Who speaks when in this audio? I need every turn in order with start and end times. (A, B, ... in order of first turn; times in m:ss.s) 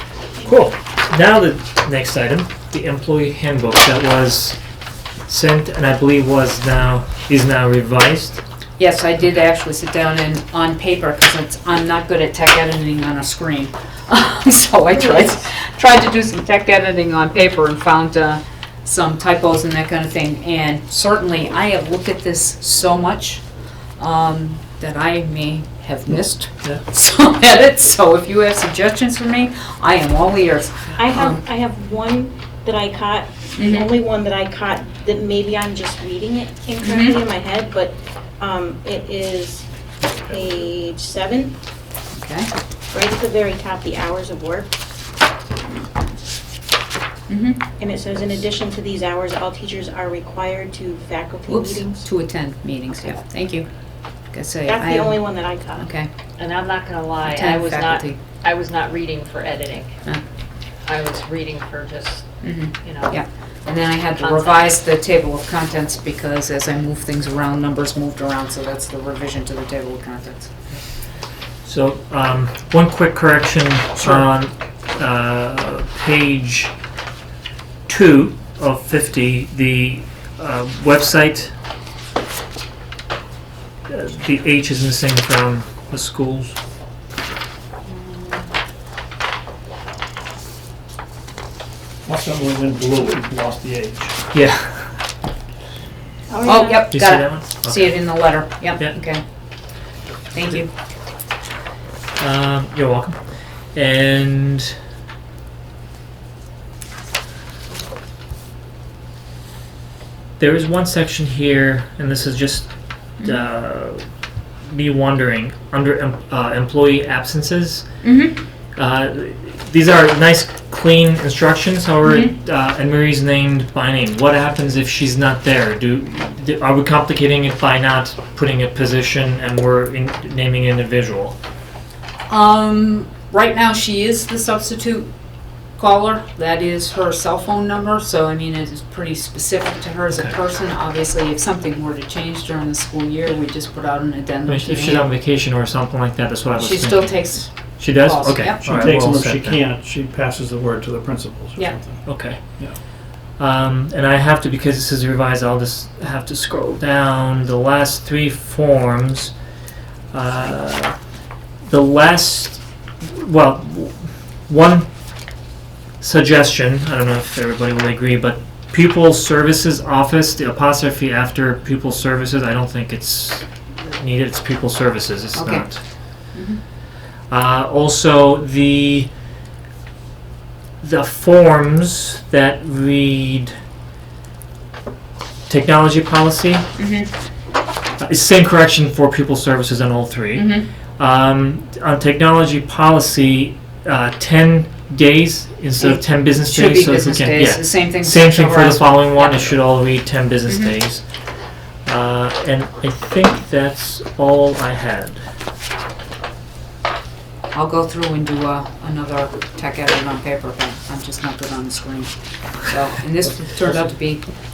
0:00.4-0:04.6 A
0:05.3-0:08.4 A
0:08.8-0:23.4 B
0:24.0-0:31.4 B
0:31.0-0:39.7 C
0:33.6-0:33.9 B
0:36.8-0:37.2 B
0:40.2-0:41.6 C
0:42.1-0:42.5 B
0:42.9-0:44.7 C
0:47.3-0:47.6 B
0:47.8-0:52.0 C
0:51.5-0:53.7 B
0:54.3-0:56.1 B
0:54.7-0:55.9 C
0:56.4-1:00.0 D
0:57.2-0:58.2 B
1:00.8-1:02.3 D
1:02.4-1:10.5 B
1:02.8-1:03.2 D
1:04.2-1:04.7 D
1:11.6-1:16.7 A
1:17.9-1:21.5 A
1:23.9-1:26.6 A
1:32.0-1:34.2 E
1:34.3-1:34.9 A
1:36.3-1:36.9 C
1:36.4-1:39.2 B
1:36.9-1:38.1 A
1:40.3-1:40.7 B
1:42.2-1:43.2 A
1:43.7-1:44.8 A
1:50.4-1:54.0 A
1:54.7-1:57.8 A
1:58.0-1:58.4 B
1:58.8-2:11.4 A
2:02.0-2:02.3 B
2:12.3-2:15.1 B
2:15.8-2:25.1 B
2:24.5-2:29.6 A
2:26.6-2:28.9 B
2:28.6-2:32.8 E
2:32.1-2:32.4 A
2:33.4-2:39.3 A
2:40.1-2:41.0 A
2:41.7-2:44.9 A
2:46.0-2:55.8 A
2:55.4-2:55.7 B
2:56.3-2:56.6 B
2:57.3-2:59.1 A
3:00.8-3:03.5 A
3:05.5-3:06.7 A
3:06.8-3:07.1 B
3:08.0-3:21.0 A
3:10.4-3:10.7 B
3:15.8-3:19.7 B
3:20.5-3:20.8 B
3:21.9-3:25.2 A
3:27.5-3:34.2 B
3:33.2-3:34.0 E